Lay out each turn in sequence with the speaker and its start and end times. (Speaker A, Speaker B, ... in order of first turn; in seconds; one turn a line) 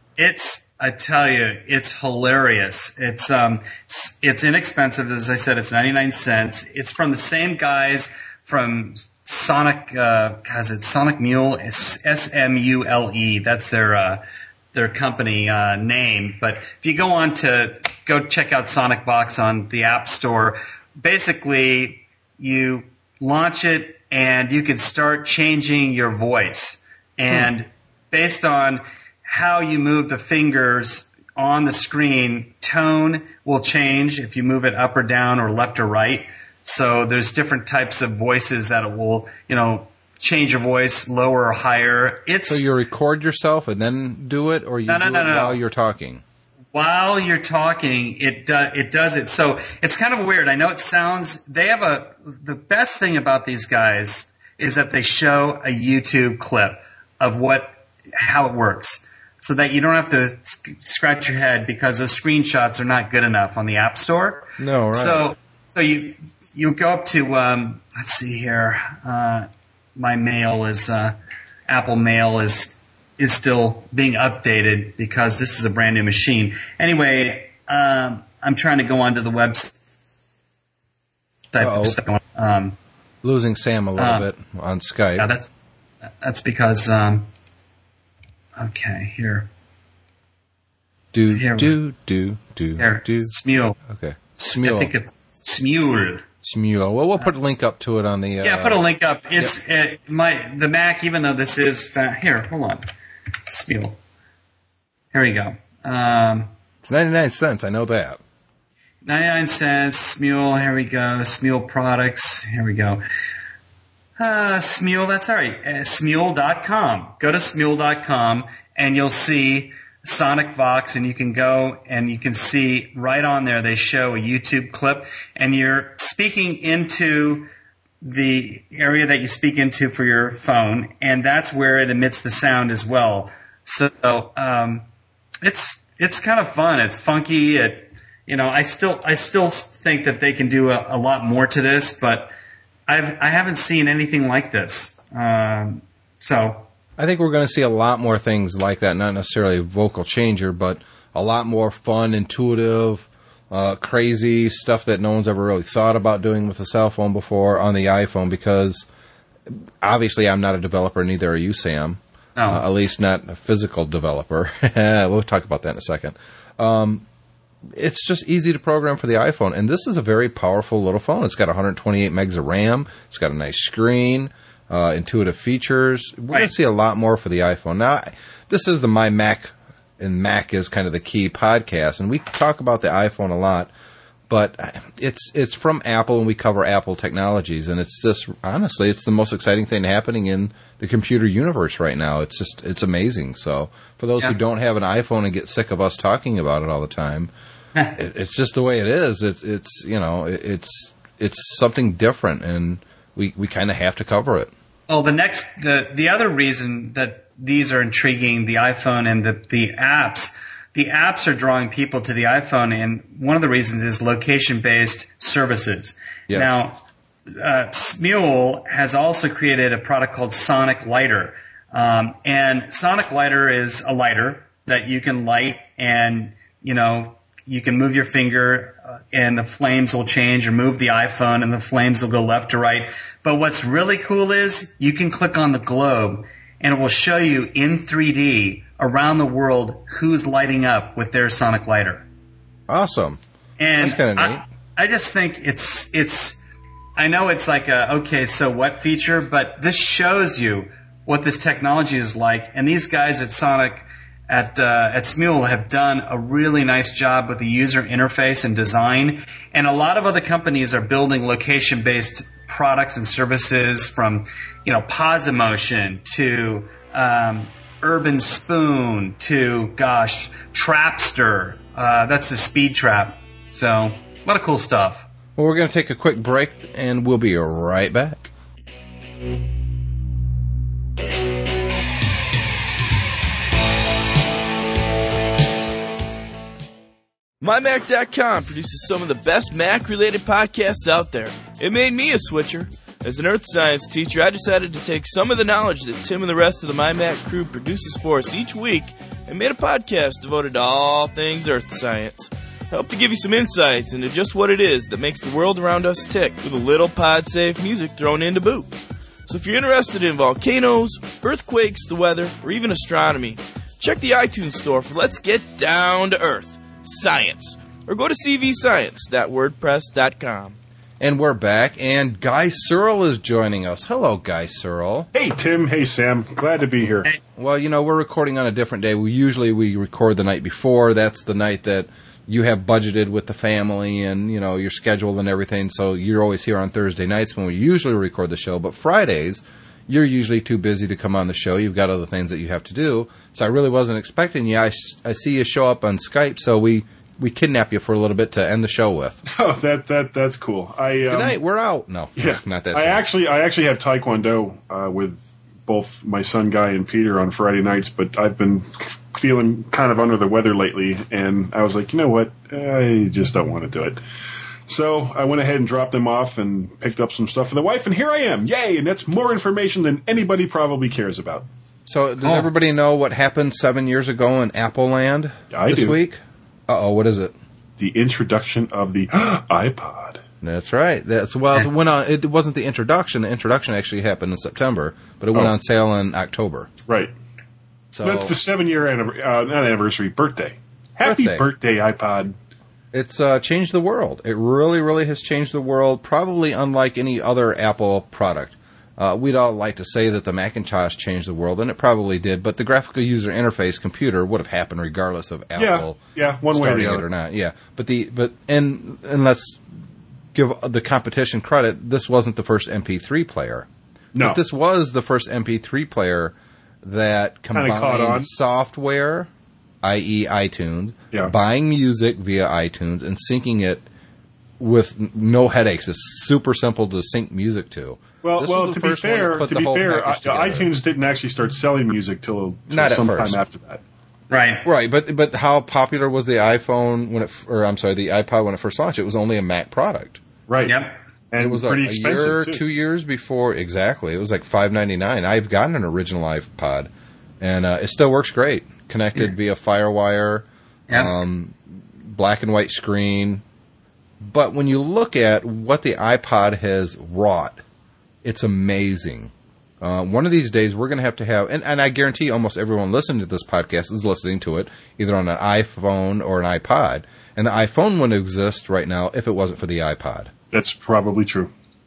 Speaker A: 0.2-14.2
Speaker A: 14.7-42.7
Speaker B: 42.5-46.2
Speaker A: 44.9-45.6
Speaker A: 46.7-71.1
Speaker B: 64.6-65.3
Speaker A: 71.7-79.7
Speaker A: 81.5-82.8
Speaker B: 81.6-82.0
Speaker B: 83.2-85.3
Speaker A: 84.0-84.3
Speaker A: 85.2-85.5
Speaker A: 86.2-87.3
Speaker A: 88.5-89.5
Speaker B: 91.1-93.4
Speaker A: 91.3-91.8
Speaker A: 92.8-93.8
Speaker B: 93.9-94.9
Speaker A: 94.4-96.2
Speaker B: 96.4-98.8
Speaker A: 98.4-102.8
Speaker A: 103.5-104.0
Speaker A: 105.1-106.5
Speaker B: 106.8-108.2
Speaker A: 109.0-113.0
Speaker A: 114.2-127.5
Speaker A: 128.0-134.8
Speaker A: 135.4-142.3
Speaker A: 142.9-146.7
Speaker B: 147.0-158.8
Speaker B: 159.8-167.0
Speaker A: 162.3-162.6
Speaker B: 167.8-183.7
Speaker B: 184.3-197.3
Speaker B: 197.9-204.5
Speaker A: 204.9-242.0
Speaker B: 216.3-216.6
Speaker B: 242.7-243.2
Speaker A: 243.6-246.4
Speaker B: 243.8-244.4
Speaker A: 246.9-275.1
Speaker B: 275.4-278.3
Speaker C: 287.4-308.7
Speaker C: 309.3-320.6
Speaker B: 321.0-325.1
Speaker D: 325.1-327.1
Speaker B: 327.4-349.2
Speaker D: 349.3-351.4
Speaker B: 351.1-353.0
Speaker D: 352.1-364.0
Speaker D: 364.7-371.4
Speaker B: 371.9-377.3
Speaker A: 372.2-372.5
Speaker D: 375.5-376.0
Speaker D: 377.8-380.2
Speaker B: 380.4-386.7
Speaker D: 386.9-387.1
Speaker B: 387.9-388.3
Speaker D: 388.0-392.3
Speaker B: 391.0-391.4
Speaker B: 392.9-409.6
Speaker D: 405.6-407.1
Speaker B: 410.3-413.7
Speaker D: 414.1-414.4
Speaker B: 414.2-419.3
Speaker D: 417.5-418.3
Speaker B: 419.8-423.8
Speaker B: 424.6-430.7
Speaker D: 428.2-433.8
Speaker B: 432.7-433.4
Speaker A: 434.3-434.6
Speaker B: 434.6-440.2
Speaker D: 440.5-440.8
Speaker A: 440.6-441.0
Speaker D: 441.3-442.6
Speaker B: 441.4-446.9
Speaker B: 447.4-453.4
Speaker B: 454.2-457.6
Speaker B: 458.2-470.3
Speaker D: 470.5-471.5